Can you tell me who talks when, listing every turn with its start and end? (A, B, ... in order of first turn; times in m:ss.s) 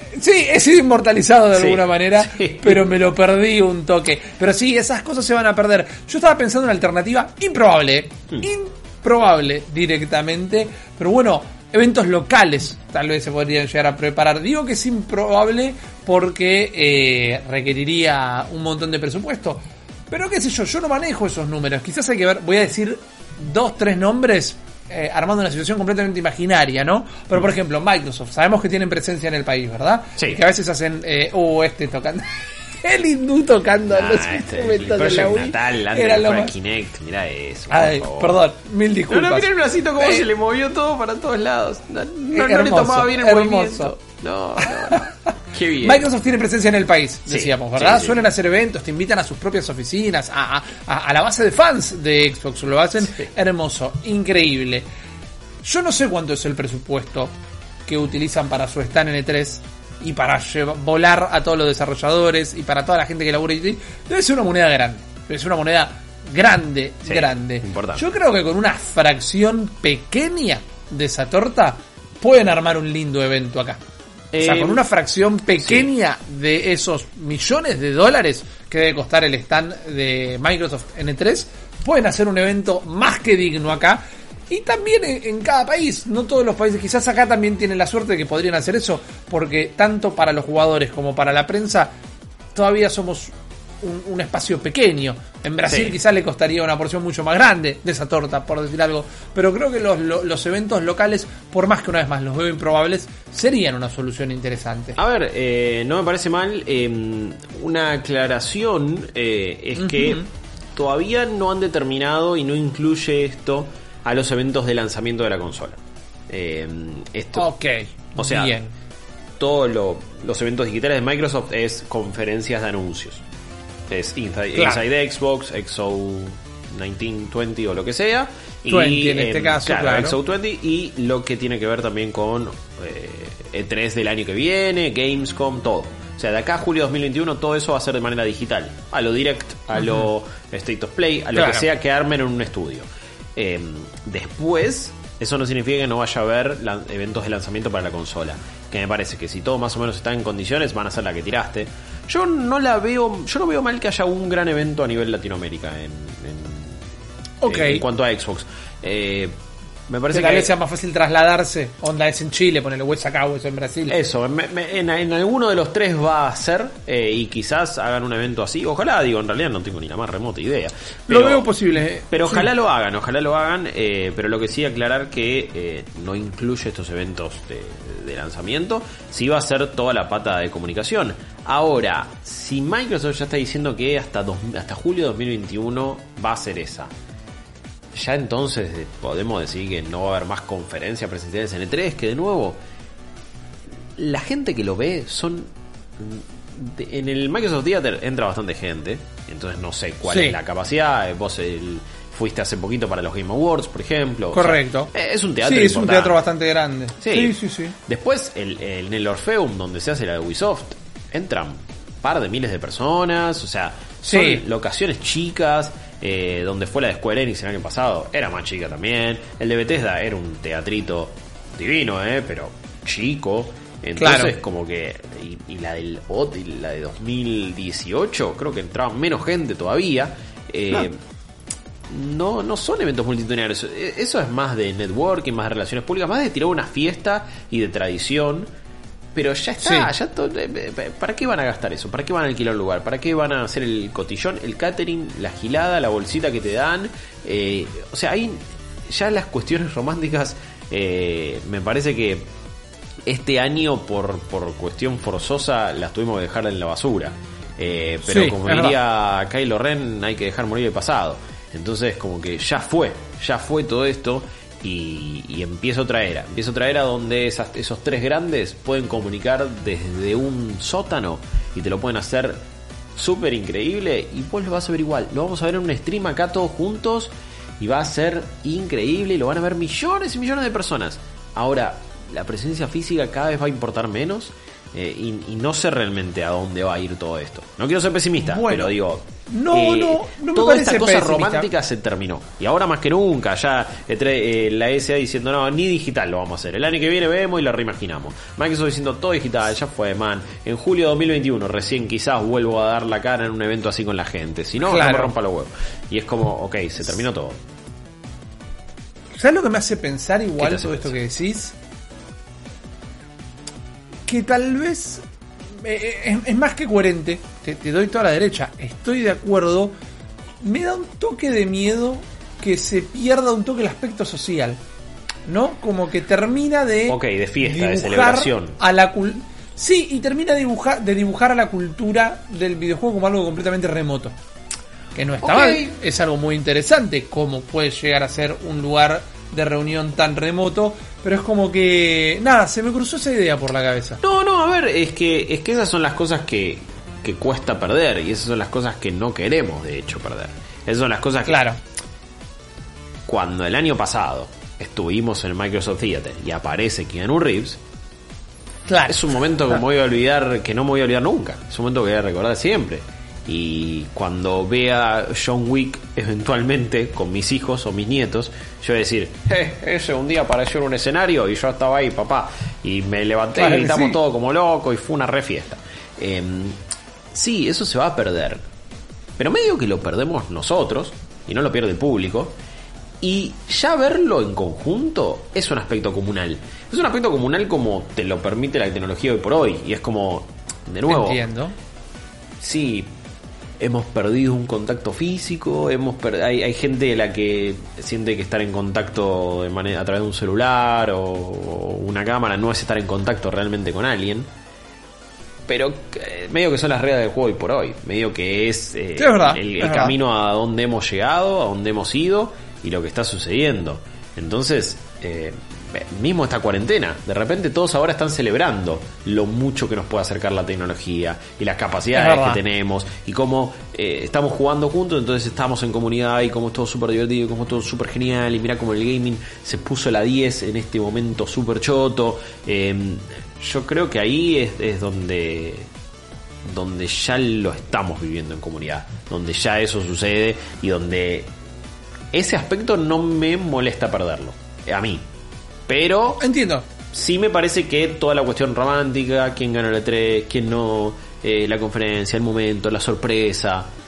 0:00.2-0:32.2 A
0:01.5-0:02.9 B
0:32.8-0:36.5 A
0:33.9-0:38.4 B
0:37.7-0:39.5 A
0:39.1-0:46.1 B
0:40.0-0:40.3 A
0:42.3-0:43.9 A
0:44.9-0:45.1 A
0:45.8-0:54.9 A
0:47.3-0:48.2 B
0:53.0-0:53.3 B
0:55.6-0:57.3 A
0:57.9-1:13.8 A
1:07.0-1:08.0 B
1:14.3-1:14.8 B
1:14.4-1:31.9 A
1:15.6-1:15.9 B
1:32.6-1:45.0 A
1:35.6-1:36.0 B
1:45.0-1:50.2 B
1:49.8-1:50.2 A
1:50.8-1:57.5 B
1:57.4-1:58.7 A
1:58.2-1:58.6 B
1:59.4-2:03.2 B
2:03.9-2:36.9 B
2:04.6-2:04.8 A
2:08.7-2:10.2 A
2:19.8-2:20.1 A
2:21.4-2:21.6 A
2:37.4-2:37.8 A
2:37.5-2:39.4 B
2:39.9-2:40.5 B
2:40.1-2:44.0 A
2:43.9-2:51.4 B
2:51.1-2:52.5 A
2:52.1-3:06.9 B
3:07.9-3:12.6 B
3:14.0-3:26.2 B
3:20.0-3:20.4 A
3:24.3-3:24.9 A
3:25.4-3:27.8 A
3:27.0-3:27.4 B
3:27.9-3:51.0 B
3:34.1-3:34.4 A
3:44.0-3:44.3 A
3:51.9-3:58.5 B
3:59.2-4:12.3 B
3:59.6-3:59.9 A
4:13.1-4:32.4 B
4:18.1-4:18.8 A
4:33.0-5:07.4 B
4:48.2-4:48.7 A
4:49.3-4:51.5 A
5:04.6-5:05.1 A
5:09.2-5:11.6 A
5:10.4-5:11.0 B
5:14.1-5:15.0 A
5:15.6-5:19.7 A
5:20.4-5:24.6 A
5:25.3-5:34.1 A
5:26.9-5:28.6 B
5:35.0-5:44.0 A
5:35.2-5:35.7 B
5:44.0-5:51.4 B
5:51.2-5:51.6 A
5:53.1-5:57.6 B
5:58.7-5:59.6 A
5:58.9-6:16.6 B
6:13.4-6:14.0 A
6:17.1-6:18.4 B
6:19.2-6:22.4 B
6:23.0-6:31.2 B
6:30.9-6:31.6 A
6:32.4-6:32.9 B
6:33.6-6:44.3 B
6:45.5-7:15.7 B
6:49.0-6:50.0 A
7:01.9-7:02.4 A
7:16.4-7:21.3 B
7:22.1-7:25.0 B
7:25.7-7:26.2 B
7:26.2-7:26.6 A
7:26.9-7:33.7 B